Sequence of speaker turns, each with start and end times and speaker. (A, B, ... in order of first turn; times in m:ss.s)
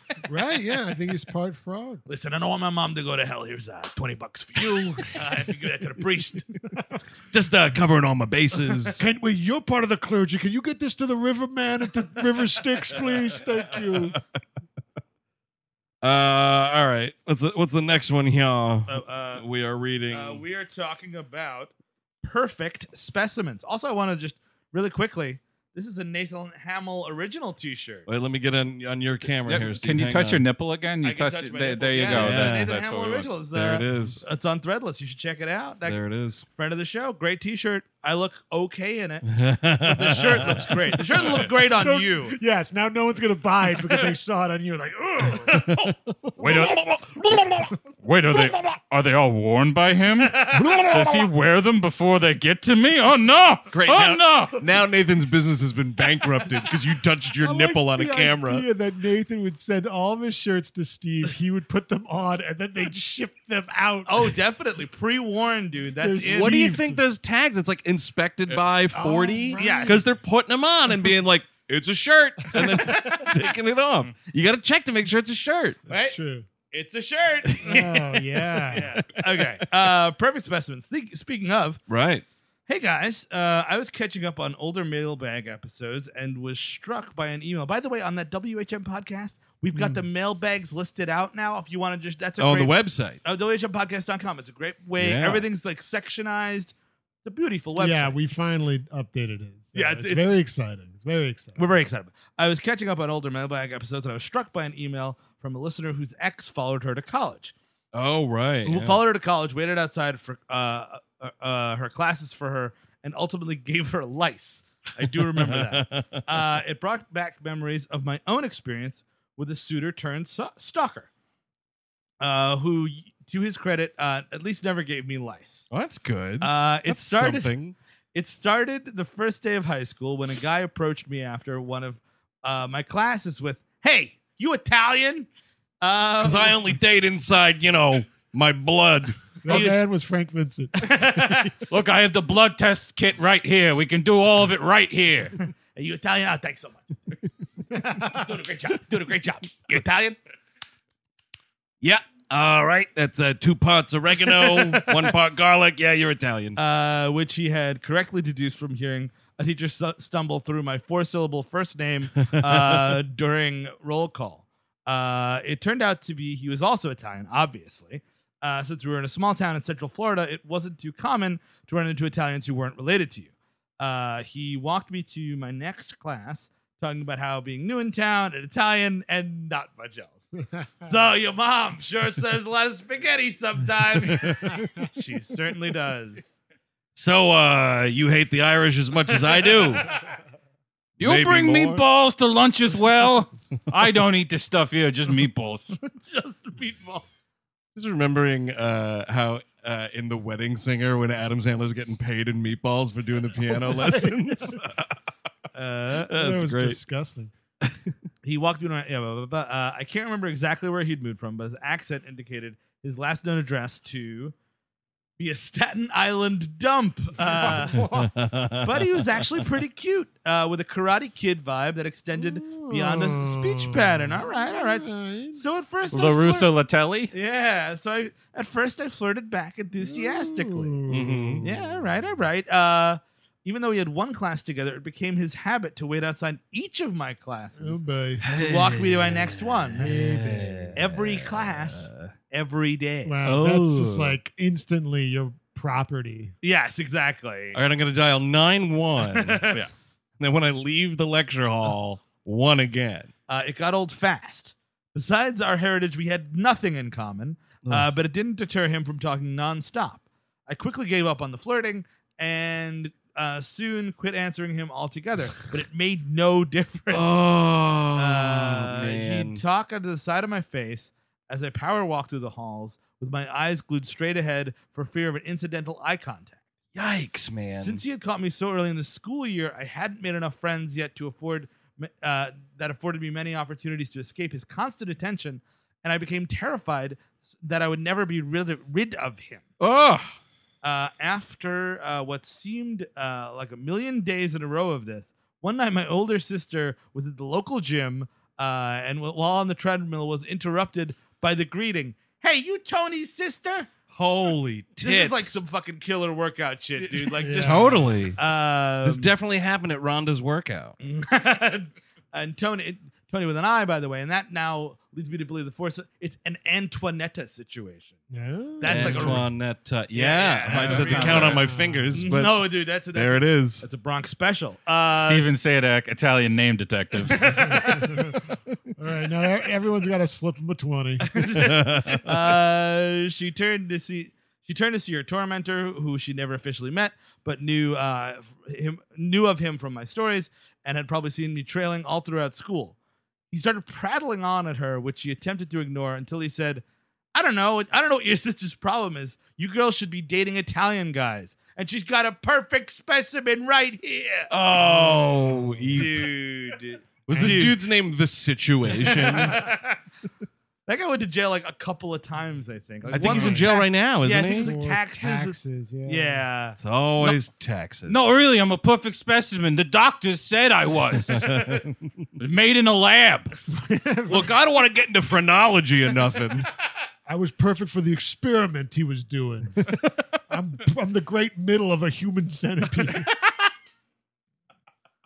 0:00.2-0:02.0 A
0:02.1-0:06.5 B
0:07.3-0:09.0 C
0:09.0-0:14.2 A
0:16.0-0:20.4 C
0:18.9-0:19.4 B
0:20.1-0:28.1 B
0:28.0-0:30.4 C
0:29.4-0:33.4 D
0:31.0-0:36.0 B
0:32.0-0:32.7 C
0:33.5-0:34.2 C
0:35.8-0:36.4 C
0:36.5-0:42.4 B
0:39.2-0:41.3 C
0:41.6-0:46.3 A
0:45.5-0:45.9 B
0:46.4-0:54.6 D
0:50.3-0:50.8 B
0:50.5-0:51.1 C
0:53.7-0:58.6 C
0:57.4-1:04.3 A
1:04.0-1:06.7 B
1:06.0-1:07.0 A
1:06.2-1:15.8 C
1:08.9-1:10.0 A
1:09.6-1:10.0 B
1:12.6-1:13.2 B
1:15.9-1:16.2 B
1:15.9-1:16.5 A
1:16.7-1:21.8 B
1:17.6-1:18.9 A
1:21.9-1:22.2 C
1:22.7-1:36.7 B
1:29.7-1:30.0 A
1:32.4-1:33.2 C
1:35.0-1:35.4 C
1:37.2-1:38.1 B
1:37.8-1:41.6 A
1:39.7-1:40.4 B
1:41.6-1:47.5 B
1:47.9-1:49.0 C
1:48.6-2:01.1 B
1:55.3-1:56.2 C
2:02.2-2:05.7 B
2:05.7-2:07.8 C
2:06.4-2:07.5 B
2:08.1-2:15.3 B
2:15.8-2:16.7 B
2:16.2-2:19.6 C
2:19.4-2:20.7 A
2:19.5-2:19.8 B
2:20.8-2:21.6 B
2:21.7-2:25.3 D
2:25.7-2:26.9 B
2:27.8-2:30.2 B
2:31.8-2:36.6 C
2:36.6-3:00.2 B
2:42.2-2:42.9 C
3:00.8-3:06.3 B
3:06.9-3:09.9 C
3:09.1-3:10.0 B
3:11.0-3:15.8 D
3:11.0-3:11.8 C
3:16.0-3:17.0 B
3:17.7-3:24.9 C
3:23.6-3:24.6 A
3:25.5-3:26.1 B
3:26.0-3:26.8 C
3:26.1-3:27.3 A
3:27.6-3:27.9 C
3:28.2-3:34.3 B
3:35.2-3:37.9 B
3:37.8-3:39.5 C
3:38.6-3:46.5 B
3:42.1-3:45.4 A
3:45.9-3:47.1 D
3:47.1-3:50.8 B
3:49.8-3:51.6 A
3:50.9-3:51.6 C
3:51.4-3:59.9 B
3:57.6-3:58.3 A
3:58.2-4:02.1 C
3:59.8-4:00.8 A
4:00.7-4:03.2 B
4:03.0-4:06.3 A
4:03.2-4:04.1 C
4:06.4-4:07.6 B
4:07.5-4:09.4 C
4:09.0-4:09.6 B
4:10.2-4:13.1 C
4:13.3-4:27.3 B
4:17.6-4:17.9 C
4:26.9-4:29.4 C
4:27.9-4:36.4 B
4:36.7-4:37.8 C
4:37.5-4:49.4 B
4:49.6-4:50.2 C
4:50.6-5:03.7 B
5:03.9-5:05.4 C
5:04.8-5:09.1 B
5:07.0-5:08.2 C
5:07.1-5:08.1 A
5:08.8-5:10.7 C
5:10.8-5:18.0 B
5:18.1-5:19.2 A
5:18.6-5:19.3 B
5:18.6-5:23.6 C
5:19.9-5:25.3 B
5:20.5-5:21.4 D
5:20.9-5:22.0 A
5:24.9-5:27.7 D
5:27.1-5:27.9 B
5:27.4-5:28.1 A
5:28.8-5:31.2 A
5:31.1-5:42.8 B
5:31.4-5:32.1 C
5:43.3-5:46.6 B
5:47.1-5:54.3 B
5:54.3-5:56.1 C
5:54.8-5:55.9 A
5:55.7-5:57.6 B
5:57.1-5:59.4 C
5:57.1-5:57.6 A
5:58.8-5:59.8 B
5:58.8-5:59.3 A
6:00.7-6:06.6 B
6:02.8-6:03.6 A
6:02.9-6:04.5 C
6:04.2-6:06.2 A
6:06.6-6:08.0 C
6:07.9-6:11.6 D
6:11.1-6:11.7 C
6:12.2-6:13.3 D
6:13.5-6:14.3 A
6:14.1-6:16.5 C
6:17.0-6:23.1 A